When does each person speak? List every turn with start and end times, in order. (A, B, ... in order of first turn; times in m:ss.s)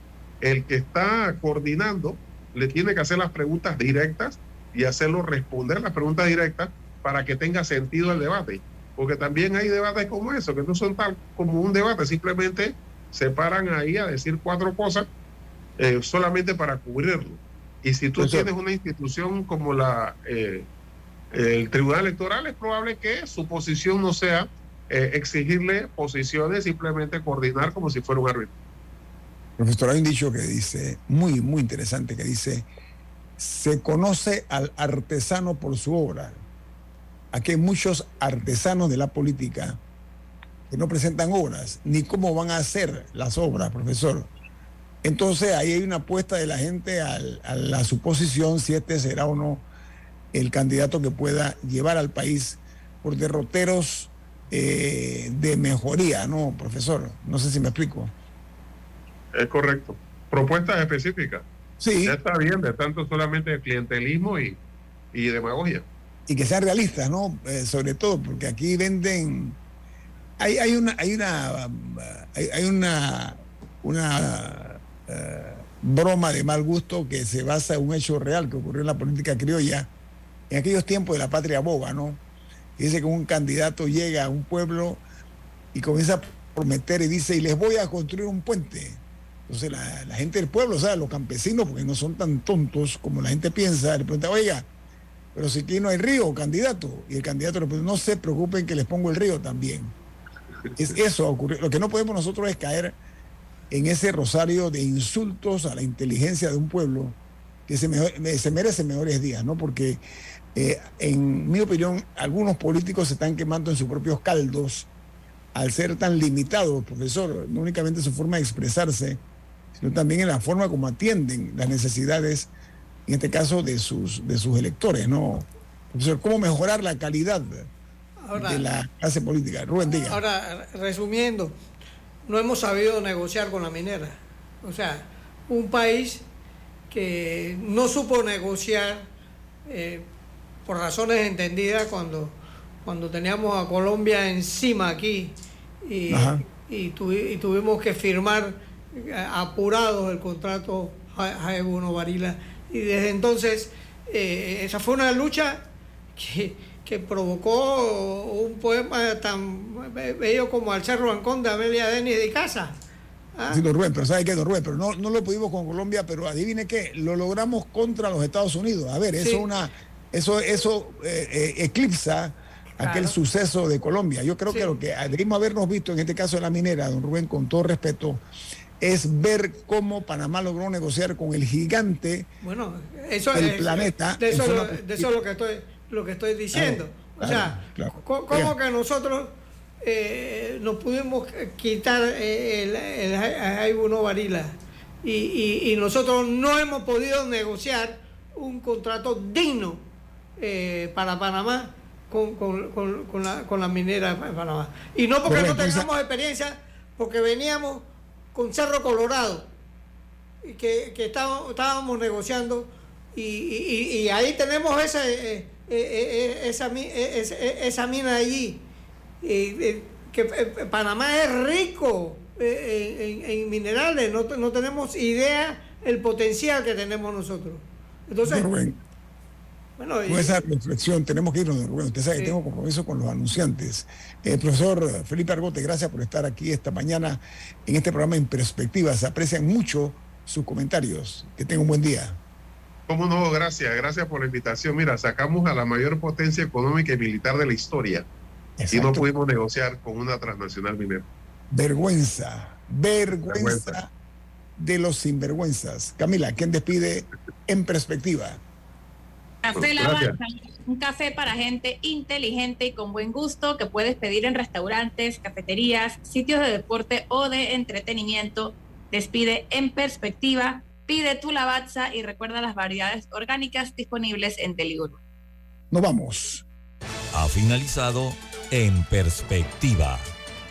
0:00.4-0:15.1 A
0:15.8-0:20.7 A
0:18.2-0:18.5 B
0:21.3-0:28.5 A
0:29.6-0:32.7 B
0:33.4-0:36.4 B
0:37.3-0:39.8 B
0:40.7-0:44.3 B
0:45.0-0:49.7 B
0:50.3-0:58.1 B
0:59.4-1:01.5 A
1:01.8-1:02.2 B
1:02.0-1:04.6 A
1:05.1-1:05.9 A
1:06.3-1:09.6 B
1:10.4-1:19.9 B
1:20.5-1:22.2 B
1:22.8-1:25.0 B
1:25.7-1:34.7 B
1:35.3-1:40.0 B
1:40.8-1:43.0 B
1:43.7-1:50.0 B
1:50.5-1:54.9 B
1:55.5-1:59.2 B
1:59.8-2:02.5 B
2:03.1-2:07.7 B
2:08.2-2:08.6 C
2:08.3-2:10.2 B
2:09.8-2:11.6 C
2:12.3-2:16.3 C
2:16.9-2:19.1 C
2:19.7-2:20.1 C
2:20.6-2:42.8 C
2:26.1-2:26.4 B
2:43.4-2:43.6 C
2:43.5-2:58.2 B
2:49.2-2:49.5 C
2:52.8-2:53.1 C
2:54.5-2:54.8 C
2:58.8-3:02.3 B
3:02.4-3:19.9 C
3:03.3-3:05.0 B
3:06.5-3:08.5 B
3:20.4-3:29.5 C
3:25.3-3:25.9 B
3:30.4-3:38.6 C
3:39.2-3:48.5 C
3:48.2-3:48.8 B
3:49.8-3:50.4 C
3:50.1-4:02.2 B
4:02.9-4:08.1 A
4:08.6-4:09.0 B
4:08.7-4:11.1 A
4:11.5-4:13.9 B
4:13.3-4:13.8 A
4:14.6-4:18.4 B
4:19.4-4:35.0 D
4:19.6-4:20.2 A
4:35.7-4:36.4 B
4:37.1-4:40.1 E